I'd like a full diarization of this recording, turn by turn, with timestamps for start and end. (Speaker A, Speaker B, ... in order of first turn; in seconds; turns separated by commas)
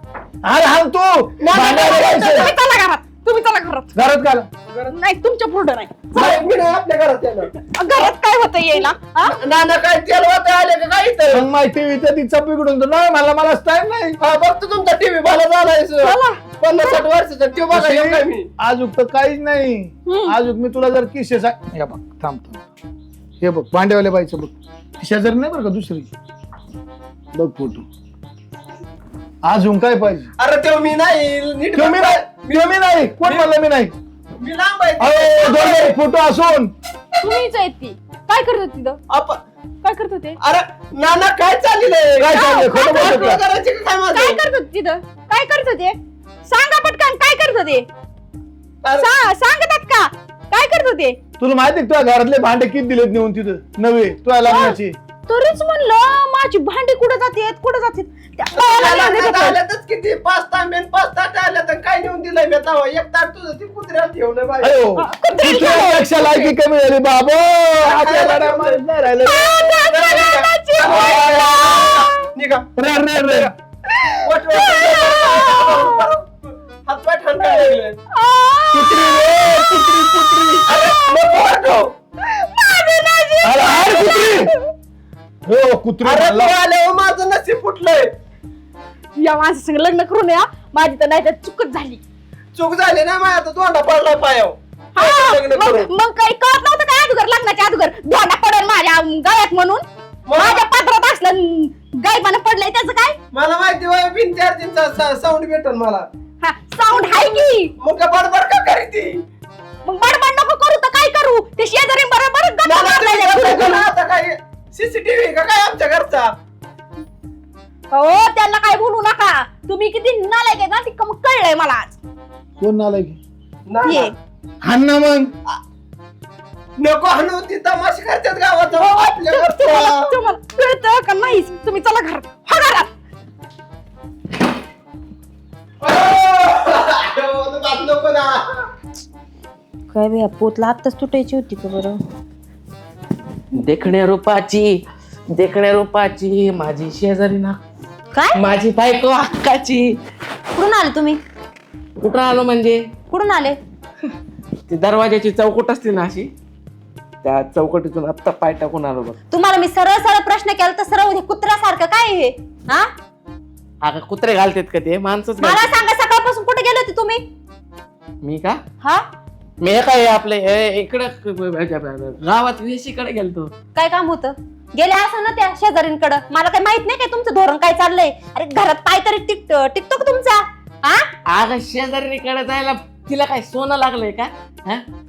Speaker A: 0.4-2.6, Speaker B: 1.4-3.9, Speaker A: 4.0-4.5, Speaker B: 4.8-6.5, Speaker C: 6.1-7.5, Speaker B: 7.7-9.4, Speaker C: 9.2-11.5, Speaker A: 11.3-14.2, Speaker C: 14.2-18.5, Speaker B: 16.0-16.4, Speaker A: 17.7-22.7, Speaker B: 20.1-20.3, Speaker A: 23.4-26.1, Speaker A: 27.3-27.9, Speaker A: 29.4-30.3, Speaker C: 30.4-33.5, Speaker A: 31.7-33.9, Speaker C: 34.4-36.0, Speaker A: 35.0-36.7, Speaker B: 37.2-39.0, Speaker C: 39.1-39.4, Speaker B: 39.8-40.4, Speaker C: 40.4-44.4, Speaker A: 42.2-43.4, Speaker B: 42.3-43.3, Speaker B: 44.1-47.9, Speaker C: 48.8-49.1, Speaker B: 48.9-51.2, Speaker A: 51.4-55.0, Speaker B: 54.5-54.8, Speaker B: 55.3-59.6, Speaker C: 58.5-64.8, Speaker A: 64.6-69.5, Speaker B: 65.0-66.5, Speaker C: 67.8-68.8, Speaker B: 69.2-72.2, Speaker C: 69.8-72.7, Speaker A: 70.8-71.9, Speaker A: 72.8-73.5, Speaker C: 73.2-73.5, Speaker C: 74.2-78.0, Speaker B: 74.5-76.1, Speaker B: 77.5-79.2, Speaker A: 78.7-80.7, Speaker C: 80.7-81.9, Speaker B: 80.8-81.6, Speaker B: 82.3-84.4, Speaker A: 83.4-84.5, Speaker A: 85.5-86.5, Speaker C: 86.0-88.1, Speaker B: 89.2-92.0, Speaker C: 92.5-95.9, Speaker B: 95.0-103.2, Speaker C: 100.3-100.7, Speaker C: 103.3-106.1, Speaker B: 106.4-107.7, Speaker D: 106.9-107.3, Speaker C: 107.8-109.2, Speaker B: 109.8-113.9, Speaker C: 112.6-116.3, Speaker B: 117.9-122.0, Speaker A: 122.6-123.2, Speaker C: 123.7-124.1, Speaker B: 123.8-124.1, Speaker A: 124.6-125.3, Speaker C: 126.8-130.1, Speaker B: 128.8-132.9, Speaker C: 135.8-138.6, Speaker D: 139.9-141.9, Speaker E: 143.6-147.6, Speaker E: 148.4-150.0, Speaker D: 150.6-151.2, Speaker E: 152.0-152.9, Speaker D: 153.1-153.6, Speaker E: 154.7-156.3, Speaker E: 157.2-159.2, Speaker D: 159.3-162.9, Speaker E: 163.8-165.7, Speaker D: 165.4-167.2, Speaker E: 168.2-168.6, Speaker E: 169.6-173.5, Speaker D: 173.8-181.1, Speaker E: 181.3-184.8